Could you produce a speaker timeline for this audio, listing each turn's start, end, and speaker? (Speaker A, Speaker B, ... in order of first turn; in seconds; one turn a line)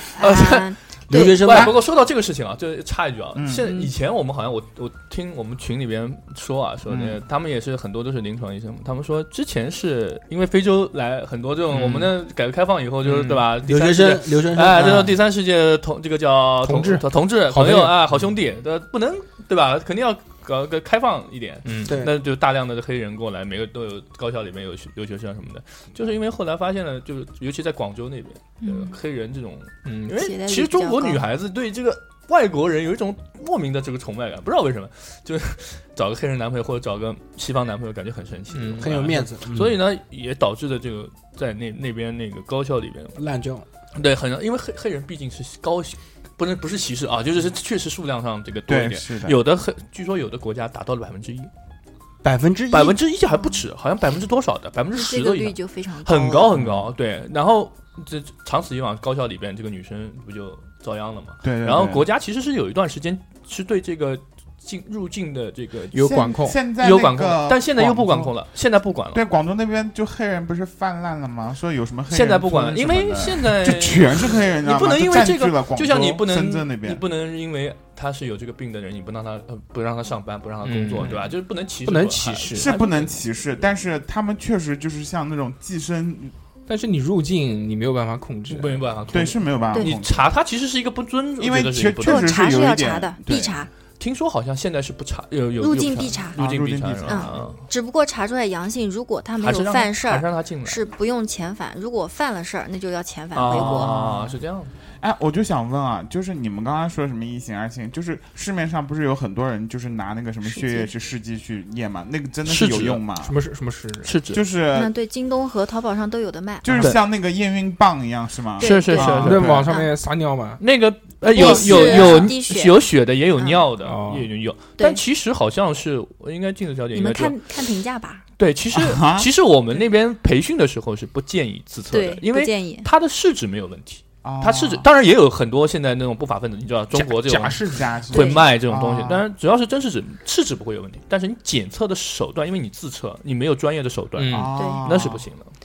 Speaker A: 0.2-1.6
Speaker B: 0.2-43.2
Speaker C: 1.1-1.8
Speaker D: 3.4-3.8
Speaker D: 6.9-7.2
Speaker E: 11.7-12.1
Speaker E: 13.0-13.5
Speaker C: 13.6-15.2
Speaker E: 16.6-18.0
Speaker E: 21.6-22.0
Speaker C: 21.9-22.2
Speaker A: 28.6-29.0
Speaker E: 29.9-30.1
Speaker A: 30.1-31.2
Speaker E: 38.5-39.1
Speaker C: 38.8-39.8
Speaker C: 43.2-43.6
Speaker B: 43.9-51.5
Speaker D: 48.7-49.4
Speaker C: 52.2-53.0
Speaker B: 52.7-69.2
Speaker A: 53.3-53.6
Speaker A: 54.9-56.6
Speaker D: 56.5-56.9
Speaker D: 61.4-62.1
Speaker E: 65.9-66.6
Speaker D: 66.0-68.3
Speaker D: 69.1-77.0
Speaker B: 72.1-83.7
Speaker E: 80.6-81.3
Speaker E: 81.8-82.7
Speaker D: 82.5-86.3
Speaker E: 86.7-88.9
Speaker B: 88.5-92.6
Speaker D: 89.1-90.3
Speaker D: 91.4-93.7
Speaker A: 92.0-93.7
Speaker B: 94.0-97.7
Speaker A: 95.6-96.4
Speaker D: 96.4-97.5
Speaker A: 97.1-104.0
Speaker B: 99.4-100.9
Speaker B: 103.3-104.8
Speaker D: 103.5-104.4
Speaker D: 105.0-113.3
Speaker A: 110.4-110.9
Speaker B: 112.5-113.0
Speaker E: 113.2-114.1
Speaker B: 114.0-114.4
Speaker D: 114.3-114.9
Speaker A: 114.7-116.9
Speaker D: 116.6-119.7
Speaker A: 118.6-119.9
Speaker B: 118.6-119.6
Speaker E: 119.2-120.6
Speaker B: 120.6-127.4
Speaker A: 121.2-122.8
Speaker D: 121.5-122.3
Speaker A: 123.4-123.7
Speaker E: 123.8-124.3
Speaker A: 126.9-128.2
Speaker B: 128.4-145.5
Speaker D: 128.7-129.3
Speaker A: 131.9-132.9
Speaker D: 134.2-134.9
Speaker E: 136.9-137.9
Speaker D: 137.7-139.2
Speaker A: 138.1-138.5
Speaker E: 144.2-144.5
Speaker D: 144.3-145.3
Speaker A: 144.6-144.8